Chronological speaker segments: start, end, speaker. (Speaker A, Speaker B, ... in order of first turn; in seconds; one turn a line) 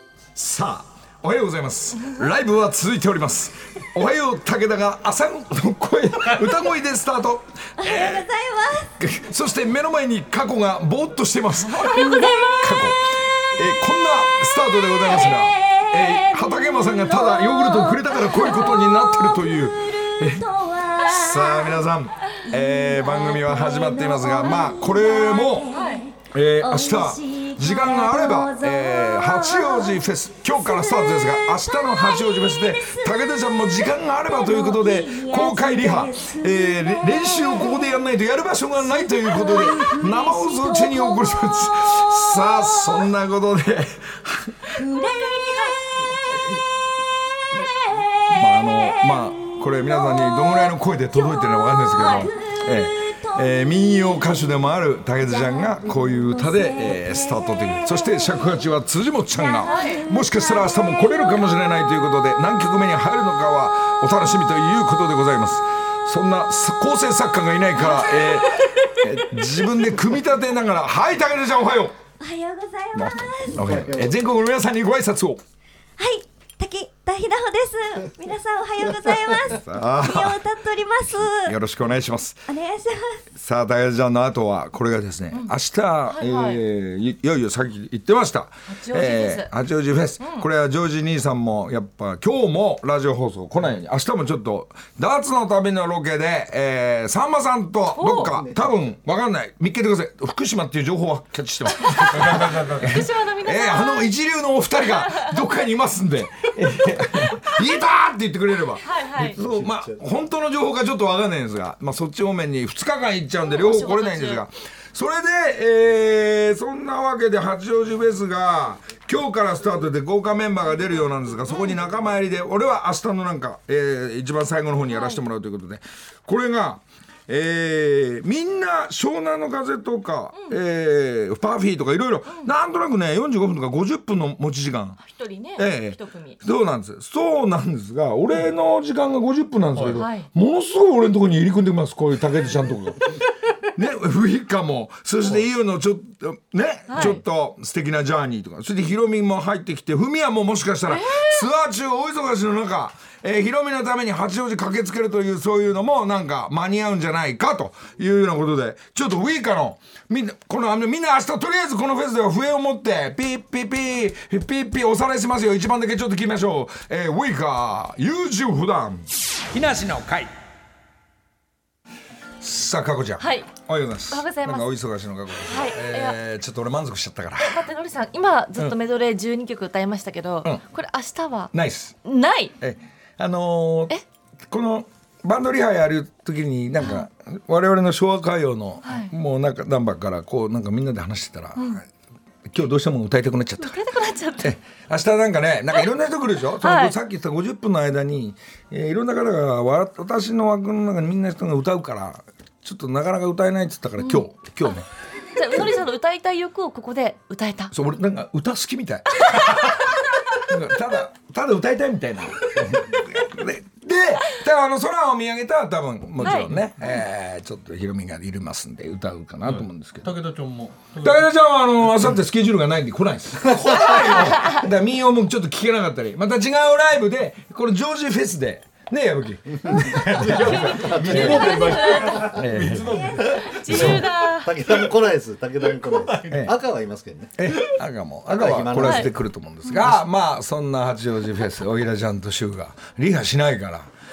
Speaker A: 0.3-8.2
Speaker B: 7.8-8.9
Speaker A: 9.0-13.0
Speaker B: 11.7-12.8
Speaker A: 13.6-25.7
Speaker B: 15.0-21.9
Speaker B: 22.5-38.1
Speaker C: 25.7-26.0
Speaker A: 26.3-44.9
Speaker B: 38.8-43.1
Speaker B: 44.8-46.5
Speaker B: 47.5-58.7
Speaker A: 48.3-72.0
Speaker B: 59.3-62.1
Speaker C: 59.6-60.0
Speaker B: 67.8-68.9
Speaker B: 72.2-73.8
Speaker A: 72.9-75.4
Speaker B: 76.0-81.5
Speaker A: 79.5-80.4
Speaker A: 81.4-82.5
Speaker B: 82.5-83.2
Speaker A: 83.4-135.0
Speaker C: 86.1-86.6
Speaker C: 88.7-89.5
Speaker C: 90.2-90.5
Speaker C: 98.0-98.4
Speaker C: 101.9-104.1
Speaker D: 102.1-102.8
Speaker C: 104.9-105.4
Speaker C: 108.8-109.4
Speaker E: 109.5-110.0
Speaker C: 113.4-114.4
Speaker C: 124.9-125.2
Speaker C: 135.0-136.4
Speaker A: 135.6-143.0
Speaker D: 139.8-140.1
Speaker C: 140.0-140.3
Speaker A: 143.8-170.3
Speaker C: 146.9-147.2
Speaker C: 150.9-151.5
Speaker A: 172.4-177.7
Speaker C: 173.2-173.6
Speaker C: 174.1-174.7
Speaker C: 175.5-176.2
Speaker C: 177.4-182.5
Speaker A: 181.5-182.0
Speaker A: 182.6-183.9
Speaker A: 184.5-191.8
Speaker C: 188.8-189.1
Speaker A: 192.5-193.8
Speaker C: 193.6-194.6
Speaker A: 194.4-204.9
Speaker C: 196.6-197.0
Speaker C: 204.0-204.3
Speaker C: 205.3-207.7
Speaker A: 207.7-209.8
Speaker C: 209.2-209.8
Speaker A: 210.5-220.2
Speaker C: 216.2-216.5
Speaker D: 219.5-221.3
Speaker A: 221.0-231.7
Speaker C: 223.9-224.6
Speaker E: 229.9-231.6
Speaker D: 230.0-234.0
Speaker C: 230.5-232.3
Speaker A: 232.3-234.1
Speaker B: 233.0-233.3
Speaker C: 233.5-234.5
Speaker E: 233.7-237.4
Speaker D: 235.9-236.4
Speaker A: 237.4-243.9
Speaker E: 238.3-239.1